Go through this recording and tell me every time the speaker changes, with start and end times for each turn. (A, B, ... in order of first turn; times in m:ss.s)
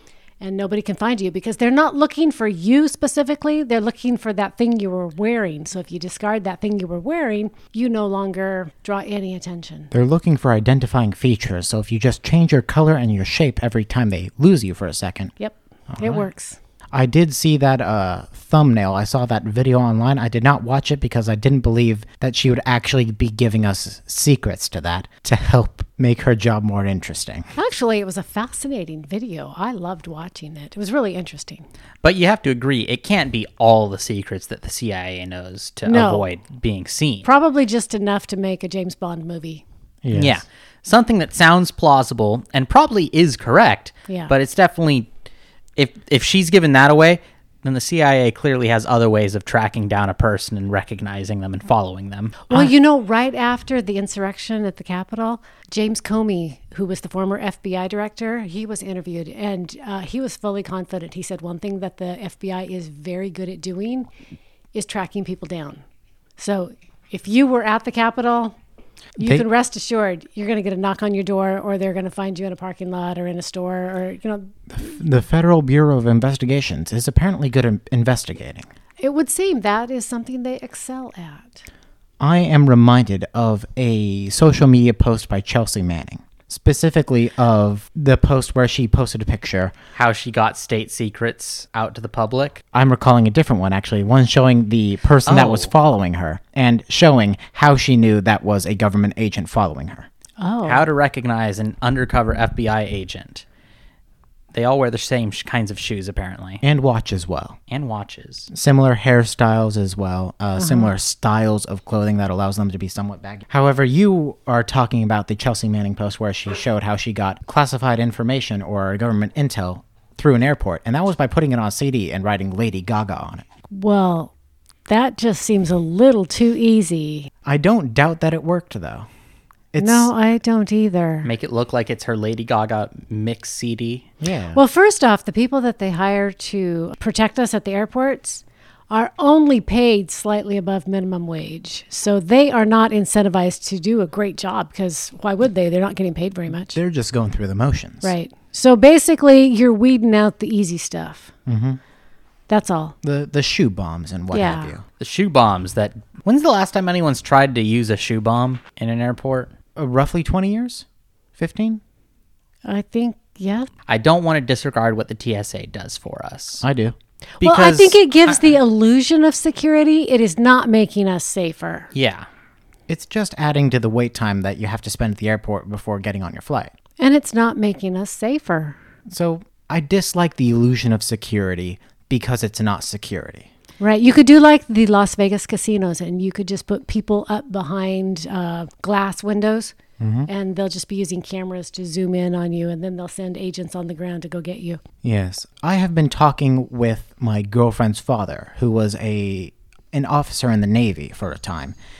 0:00.4-0:09.9 A
0:09.9-0:15.3 B
0:15.4-0:16.6 A
0:15.9-0:16.2 B
0:16.9-0:27.5 B
0:27.6-0:31.7 A
0:32.0-0:37.3 C
0:35.9-0:36.3 A
0:37.2-0:39.6 A
0:40.0-0:40.4 B
0:40.1-0:45.1 C
0:45.8-0:52.5 C
0:52.5-1:04.1 A
1:04.7-1:05.8 A
1:06.4-1:08.6 A
1:09.2-1:14.6 A
1:14.7-1:18.7 B
1:19.0-1:21.6 A
1:22.2-1:29.7 B
1:30.0-1:32.6 C
1:32.7-1:40.1 B
1:35.3-1:35.7 C
1:40.4-1:40.8 A
1:40.6-1:43.4 C
1:44.5-1:46.6 C
1:46.6-1:47.6 B
1:47.7-1:48.5 C
1:48.5-2:03.4 B
1:50.6-1:50.9 A
2:03.7-2:04.3 A
2:04.9-2:07.3 A
2:07.4-2:09.1 B
2:09.7-2:10.1 B
2:09.8-2:11.3 A
2:11.2-2:14.0 C
2:14.2-2:14.6 B
2:14.5-2:26.8 A
2:26.7-2:28.1 B
2:28.0-2:31.3 A
2:31.5-2:31.8 B
2:32.5-2:33.0 A
2:33.0-2:34.8 B
2:34.3-2:34.7 A
2:35.0-2:39.5 C
2:39.8-2:40.9 B
2:41.4-2:41.8 B
2:42.6-2:43.7 A
2:43.9-2:46.6 C
2:46.6-2:47.0 B
2:47.4-2:48.4 C
2:47.4-2:51.9 A
2:51.9-2:52.3 C
2:52.9-2:56.7 B
2:57.0-2:58.8 A
2:59.1-3:03.5 B
3:03.8-3:09.8 A
3:10.0-3:10.3 B
3:10.3-3:14.8 A
3:15.0-3:21.8 B